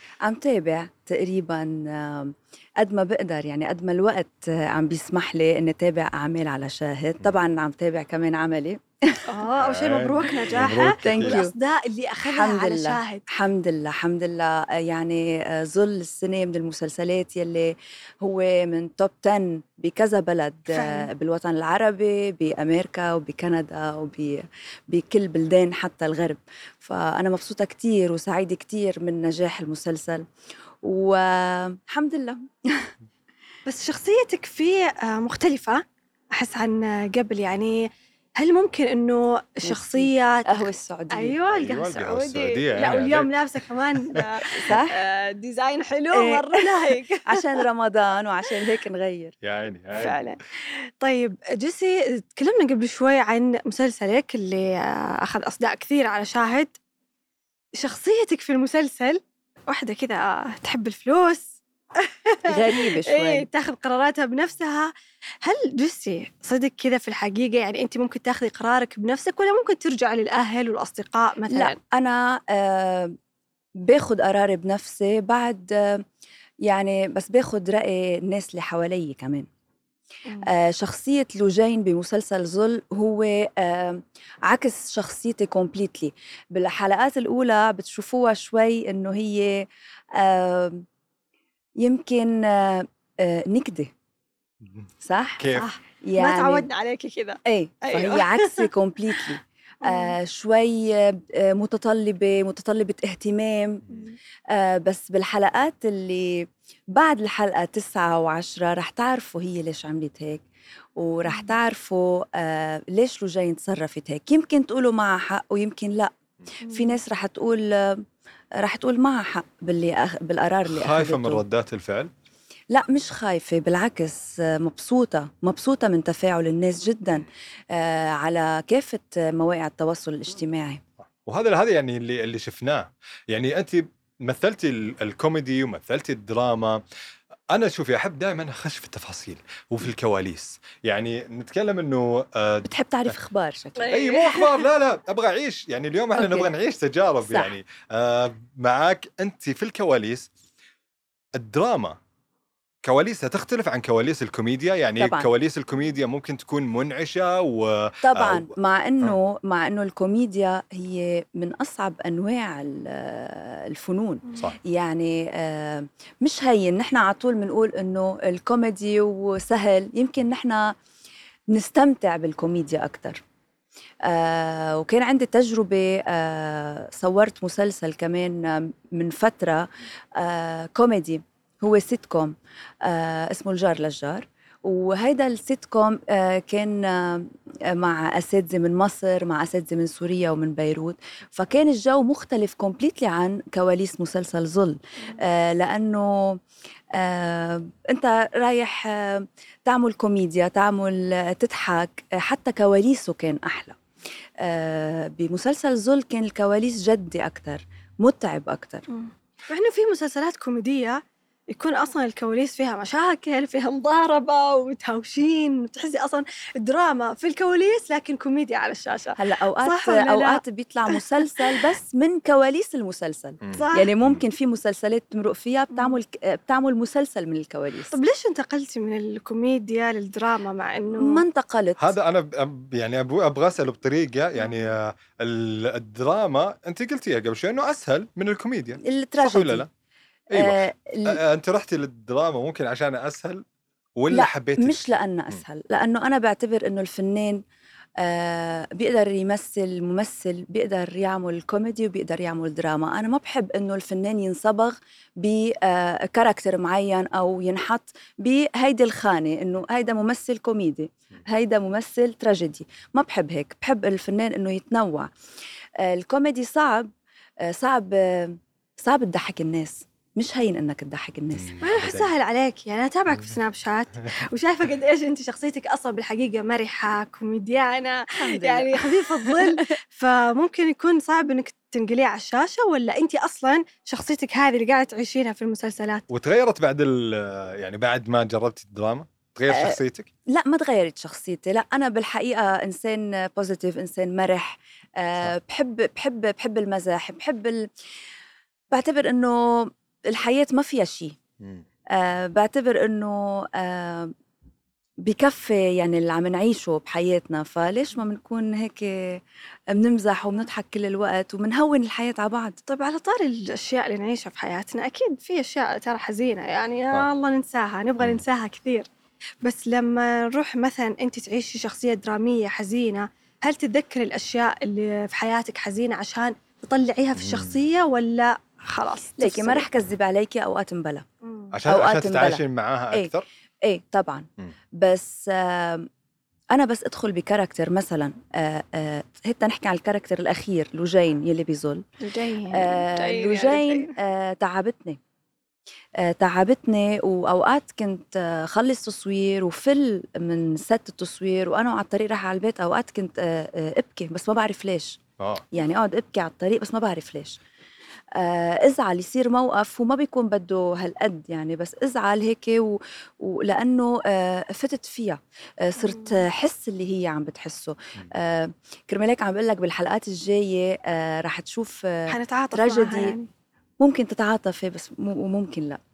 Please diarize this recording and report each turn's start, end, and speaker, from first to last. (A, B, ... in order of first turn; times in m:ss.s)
0:00.2-0:09.2 A
0:09.3-0:13.2 B
0:09.6-0:11.4 C
0:11.0-0:11.5 A
0:12.2-0:30.2 A
0:20.7-0:21.1 B
0:30.8-0:32.9 A
0:33.6-0:35.8 B
0:36.3-0:47.4 B
0:39.6-0:41.4 A
0:41.5-0:43.4 C
0:44.5-0:45.0 A
0:46.1-0:49.3 A
0:49.4-0:50.2 C
0:49.9-0:56.7 B
0:57.8-1:11.8 B
1:02.4-1:03.5 A
1:11.5-1:13.2 A
1:13.8-1:16.0 A
1:16.6-1:19.5 A
1:20.4-1:30.8 A
1:31.8-1:33.9 A
1:34.6-1:35.7 C
1:35.0-1:35.4 A
1:35.2-1:39.2 B
1:36.0-1:36.7 A
1:37.4-1:43.8 A
1:39.8-1:40.2 B
1:43.9-1:44.2 B
1:44.5-1:50.4 A
1:51.0-1:56.1 A
1:51.3-1:51.5 B
1:56.6-1:57.0 B
1:56.7-1:58.0 A
1:58.6-2:01.4 A
2:00.7-2:02.1 C
2:02.7-2:10.8 A
2:11.2-2:16.8 C
2:17.5-2:23.1 C
2:22.6-2:23.9 A
2:23.8-2:24.6 B
2:23.9-2:30.3 C
2:26.1-2:26.5 A
2:27.2-2:27.5 A
2:31.3-2:32.0 C
2:32.8-2:39.2 C
2:35.0-2:35.3 A
2:38.0-2:50.8 A
2:51.5-2:53.2 A
2:54.0-3:16.4 A
3:16.9-3:23.8 A
3:24.4-3:28.8 A
3:28.9-3:41.5 B
3:39.2-3:47.9 A
3:43.4-3:44.2 C
3:43.5-3:43.9 B
3:47.9-3:51.2 B
3:51.0-3:51.9 A
3:51.8-3:59.7 C
3:58.8-3:59.6 A
4:00.3-4:03.4 C
4:00.3-4:01.2 A
4:04.0-4:05.4 C
4:04.1-4:07.4 A
4:08.0-4:25.1 A
4:25.8-4:26.9 A
4:27.4-4:31.7 A
4:31.3-4:32.1 C
4:31.6-4:46.0 B
4:38.1-4:39.6 A
4:46.1-4:50.1 C
4:49.5-4:57.7 A
4:58.7-5:01.2 A
5:01.9-5:04.1 A
5:05.0-5:09.2 A
5:09.7-5:12.6 A
5:12.7-5:18.9 B
5:19.4-5:29.7 B
5:27.2-5:27.6 C
5:29.2-5:31.0 A
5:31.2-5:31.5 B
5:31.5-5:33.2 C
5:31.6-5:33.1 A
5:33.6-5:35.9 A
5:36.5-5:41.8 A
5:42.0-5:43.9 B
5:42.5-5:45.0 A
5:46.0-5:55.0 A
5:55.2-5:55.4 C
5:55.5-5:57.4 A
5:58.1-6:13.2 A
6:05.8-6:06.2 B
6:12.1-6:13.3 B
6:13.8-6:15.8 A